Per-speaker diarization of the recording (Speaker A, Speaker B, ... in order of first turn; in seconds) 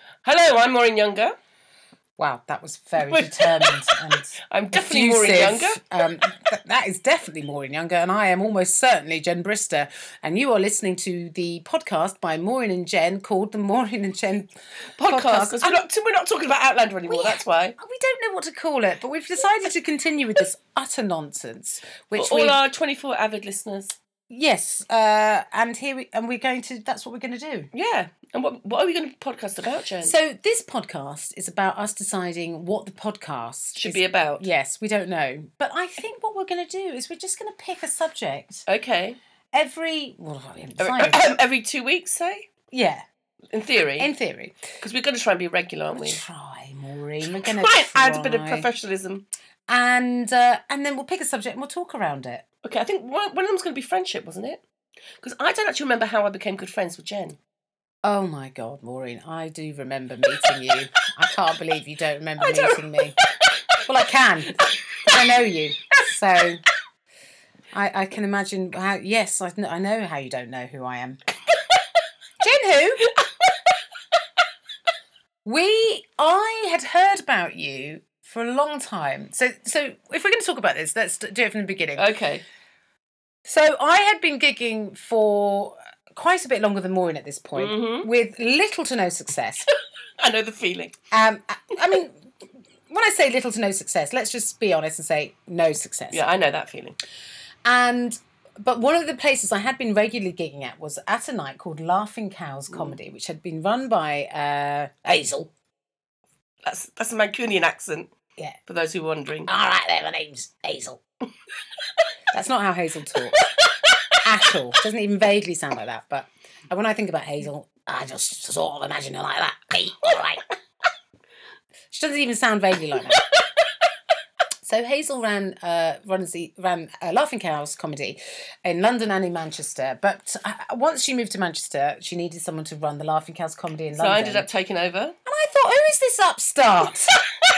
Speaker A: 0.2-1.4, 3.0-5.8, 15.0-17.8, 22.1-24.0, 27.7-30.1, 33.8-34.4, 38.7-39.2, 40.8-42.5, 43.5-44.1, 44.8-46.2, 47.2-49.2, 52.6-54.6, 55.2-57.4, 62.4-63.0, 82.0-82.4, 87.5-88.1, 90.2-90.9, 96.1-97.0, 102.7-103.0, 106.6-108.1, 108.7-109.5, 133.9-135.2
Speaker B: 2.2-15.8, 17.1-22.6, 24.3-27.7, 30.0-38.6, 39.5-41.2, 42.7-43.0, 44.0-44.6, 45.9-48.7, 49.7-52.4, 58.0-63.2, 63.9-66.6, 67.7-71.2, 72.4-73.1, 75.5-82.1, 83.5-89.7, 91.1-92.2, 92.9-96.2, 97.7-105.5, 109.5-111.0, 112.3-113.5, 114.2-120.4, 121.9-123.2, 124.6-134.5, 135.3-137.2